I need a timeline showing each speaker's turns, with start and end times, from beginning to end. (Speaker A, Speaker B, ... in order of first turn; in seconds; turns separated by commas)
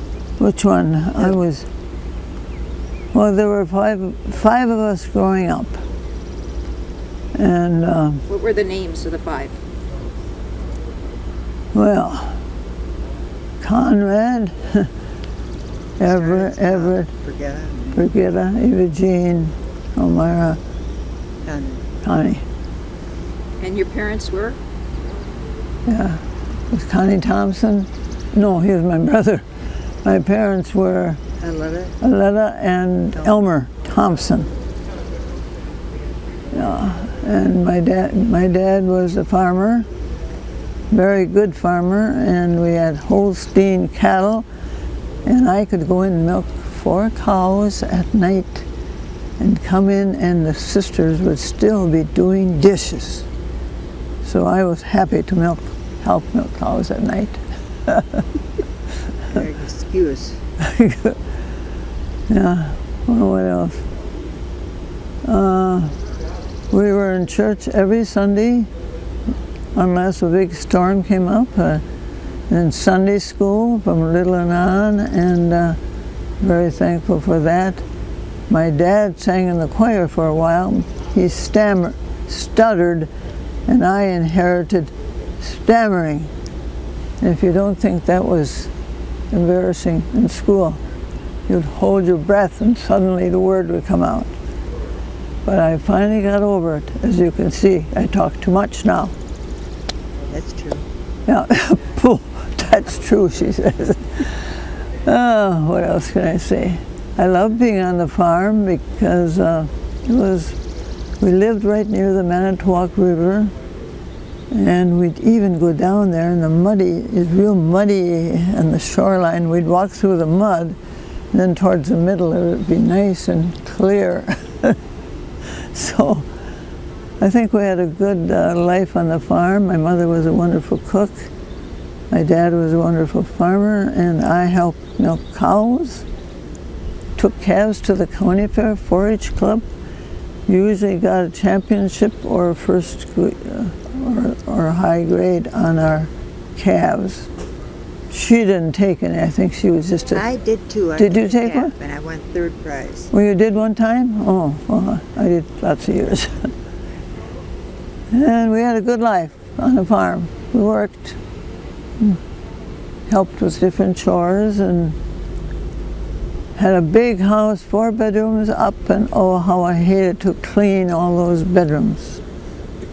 Speaker A: 0.4-1.7, Speaker A: 3.1-5.8, Speaker A: 7.3-8.2, Speaker B: 8.3-9.6, Speaker A: 11.7-12.4, Speaker A: 13.6-14.9, Speaker C: 16.0-18.1, Speaker A: 16.0-17.1, Speaker A: 17.9-20.6, Speaker C: 21.4-21.9, Speaker A: 22.0-22.4, Speaker B: 23.6-24.6, Speaker A: 25.9-29.5, Speaker A: 30.0-31.2, Speaker C: 31.4-32.0, Speaker A: 32.0-34.5, Speaker A: 36.5-39.9, Speaker A: 40.9-44.5, Speaker A: 45.2-48.7, Speaker A: 49.4-53.2, Speaker A: 54.2-58.2, Speaker C: 59.3-60.4, Speaker A: 60.6-61.2, Speaker A: 62.3-63.8, Speaker A: 65.2-66.0, Speaker A: 66.7-68.7, Speaker A: 69.7-71.8, Speaker A: 72.5-75.8, Speaker A: 76.4-77.8, Speaker A: 78.5-83.1, Speaker A: 83.7-86.3, Speaker A: 87.2-88.7, Speaker A: 89.3-90.8, Speaker A: 91.5-94.3, Speaker A: 95.4-99.1, Speaker C: 100.3-100.8, Speaker A: 101.3-110.6, Speaker A: 111.2-113.5, Speaker A: 114.5-120.8, Speaker A: 121.3-124.8, Speaker A: 125.5-126.3, Speaker A: 127.2-131.3, Speaker A: 132.1-136.1, Speaker A: 137.2-139.6, Speaker A: 140.5-147.3, Speaker A: 148.1-150.2, Speaker C: 150.1-153.1, Speaker A: 151.0-151.7, Speaker A: 153.1-156.5, Speaker A: 158.1-161.2, Speaker A: 163.1-165.0, Speaker A: 166.5-172.2